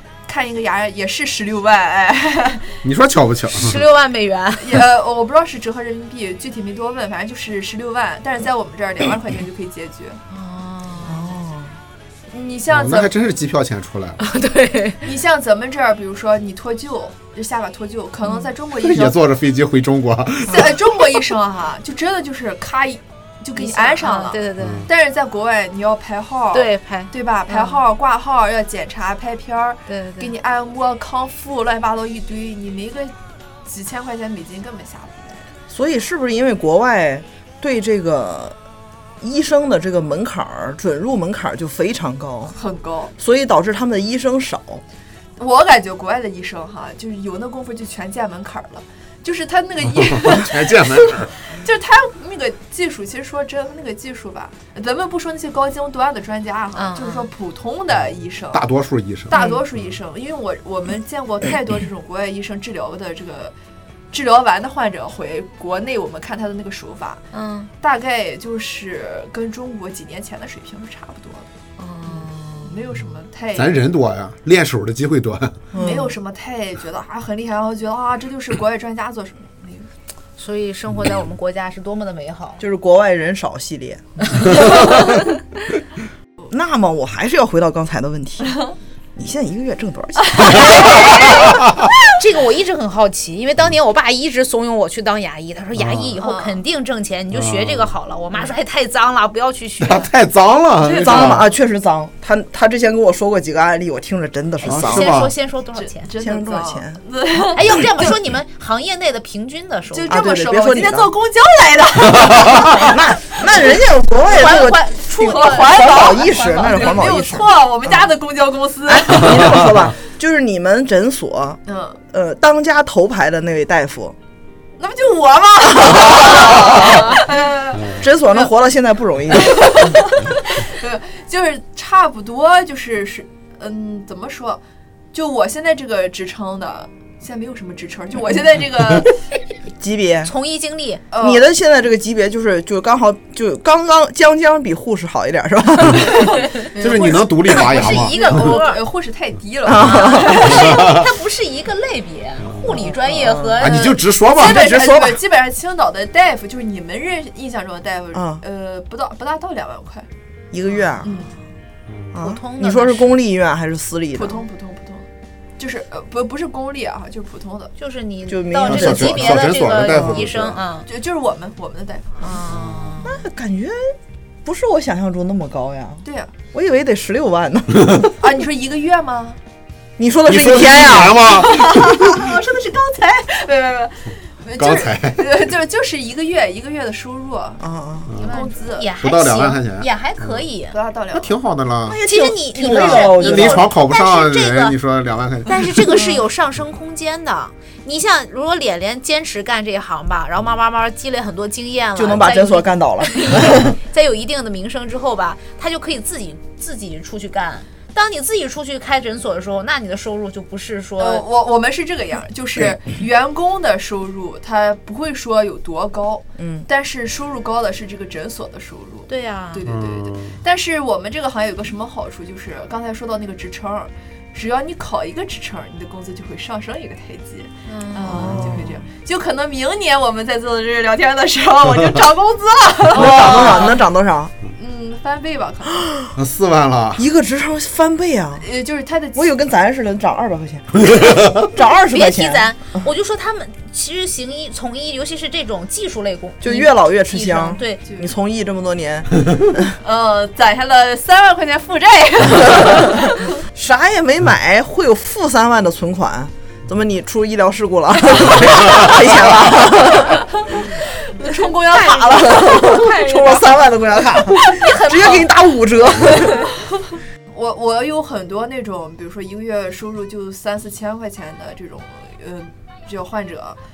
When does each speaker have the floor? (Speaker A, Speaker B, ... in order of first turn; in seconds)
Speaker A: 0.3-2.8, 4.6-10.2, 12.3-13.1, 15.0-19.2, 20.5-33.1, 33.6-35.5, 42.5-43.1, 45.4-58.6, 59.3-63.5, 64.1-67.2, 67.8-71.5, 72.1-73.8, 75.8-79.9, 88.5-88.7, 90.2-91.4, 96.2-96.6, 100.8-101.4, 105.7-108.1, 109.9-113.6, 114.5-119.7, 121.7-122.0, 124.8-128.5, 129.3-134.6, 135.1-139.2, 141.1-141.4, 145.9-151.0, 154.3-160.1, 161.0-161.3, 164.1-167.7, 170.9-172.4, 176.0-176.3, 178.2-179.4, 181.2-187.6, 188.2-188.9, 190.7-191.4, 211.0-233.8, 234.6-235.8, 238.4-239.3, 249.8-253.2, 260.5-265.2, 266.5-273.6
Speaker B: 2.8-3.8, 12.7-14.2, 18.7-20.8, 24.6-24.9, 49.9-51.3, 58.5-59.9, 73.5-75.6, 84.6-84.9, 95.8-96.1, 97.3-97.9, 99.8-101.4, 104.6-105.3, 127.7-128.0, 146.8-148.6, 150.5-151.0, 152.4-152.8, 153.6-154.9, 161.9-162.1, 168.6-170.6, 172.5-172.9, 180.2-182.3, 184.6-185.2, 188.9-190.4, 191.1-192.0, 192.6-195.9, 219.7-220.4, 236.1-237.0
Speaker C: 3.5-4.8, 10.3-11.2, 14.2-15.0, 23.6-24.9, 26.5-27.8, 29.9-30.3, 56.8-57.3, 67.3-67.7, 71.8-72.7, 80.4-82.6, 90.6-91.6, 92.1-100.1, 104.7-106.1, 107.5-110.2, 114.2-116.9, 140.2-141.0, 147.5-148.8, 149.8-154.0, 162.2-163.2, 167.8-170.9, 172.2-173.2, 188.2-190.8, 192.0-194.8, 195.5-211.2, 219.1-219.7, 227.7-228.4, 233.2-233.7, 241.9-247.8, 264.6-265.1
Speaker D: 11.0-11.7, 35.7-38.5, 39.2-42.5, 43.2-44.8, 75.7-76.1, 82.6-85.2, 86.5-88.6, 89.2-91.1, 100.9-105.1, 106.2-107.0, 110.1-111.1, 112.4-118.1, 118.8-121.6, 122.1-124.2, 125.8-127.1, 128.0-130.1, 139.8-140.3, 141.2-146.4, 149.6-150.4, 152.7-153.6, 154.4-155.2, 158.1-158.4, 160.5-161.2, 162.1-164.4, 168.3-170.2, 173.0-173.9, 174.4-178.1, 180.0-181.4, 187.6-188.1, 191.9-193.7, 201.9-203.8, 216.4-216.7, 228.1-228.7, 232.9-234.3, 235.8-236.1, 236.9-238.5, 239.1-242.8, 246.4-249.7, 252.4-252.9, 253.5-260.3, 261.7-266.5